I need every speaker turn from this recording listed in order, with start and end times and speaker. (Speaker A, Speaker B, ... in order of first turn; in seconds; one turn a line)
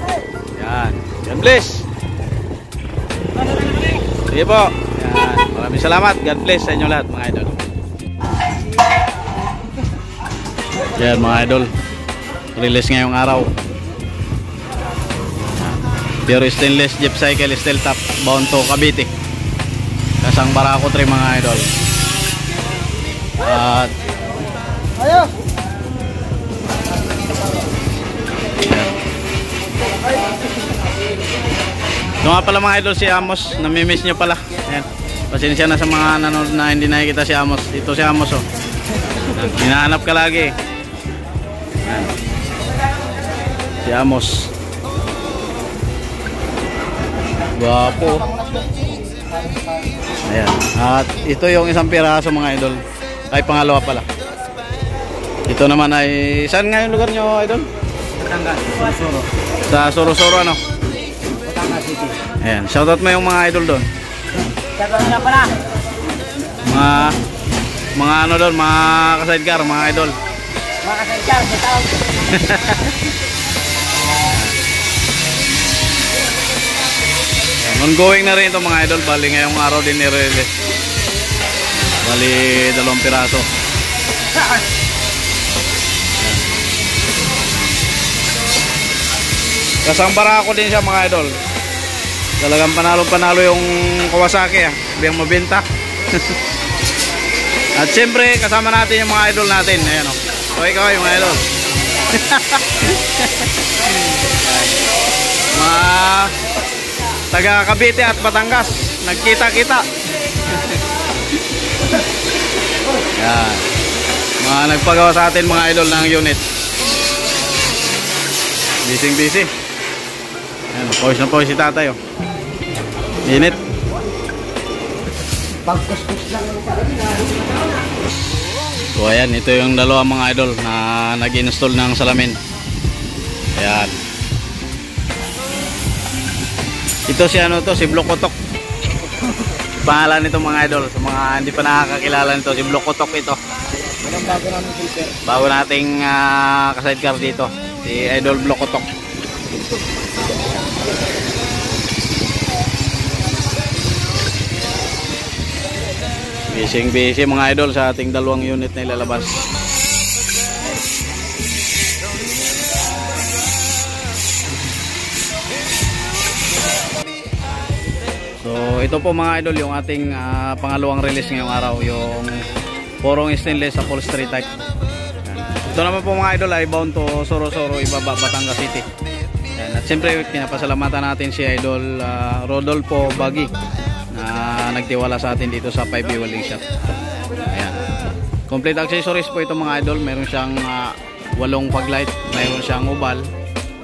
Speaker A: 0.6-1.9
Speaker A: 4.2-7.6
Speaker A: 11.0-11.7
Speaker A: 12.6-13.5
Speaker A: 15.6-19.1
Speaker A: 20.2-21.7
Speaker A: 23.4-23.9
Speaker A: 28.6-28.9
Speaker A: 32.2-38.5
Speaker A: 39.3-40.5
Speaker A: 41.8-42.1
Speaker A: 43.8-44.5
Speaker A: 47.5-48.3
Speaker A: 50.3-54.1
Speaker A: 55.5-57.7
Speaker B: 58.3-59.3
Speaker A: 59.7-60.6
Speaker B: 61.4-62.2
Speaker A: 62.4-63.9
Speaker B: 64.8-65.6
Speaker A: 66.6-67.2
Speaker A: 68.0-70.2
Speaker B: 70.8-72.1
Speaker A: 72.1-73.0
Speaker A: 74.2-74.6
Speaker A: 77.6-80.5
Speaker A: 81.8-83.5
Speaker A: 89.8-91.3
Speaker A: 92.4-96.4
Speaker A: 97.8-101.4
Speaker A: 102.0-104.2
Speaker A: 105.5-106.3
Speaker A: 107.3-109.9
Speaker A: 110.5-110.8
Speaker A: 113.1-113.7
Speaker A: 114.4-116.4
Speaker A: 118.8-119.5
Speaker A: 120.7-122.0
Speaker A: 123.2-123.6
Speaker B: 125.7-126.8
Speaker A: 128.9-132.4
Speaker A: 133.6-133.9
Speaker A: 137.1-138.3
Speaker A: 139.8-143.4
Speaker A: 144.0-148.9
Speaker B: 144.5-145.1
Speaker A: 156.5-159.5
Speaker A: 168.4-172.4
Speaker A: 173.0-174.5
Speaker A: 175.2-178.9
Speaker A: 179.6-183.5
Speaker A: 184.1-186.6
Speaker A: 187.5-187.8
Speaker A: 188.5-193.3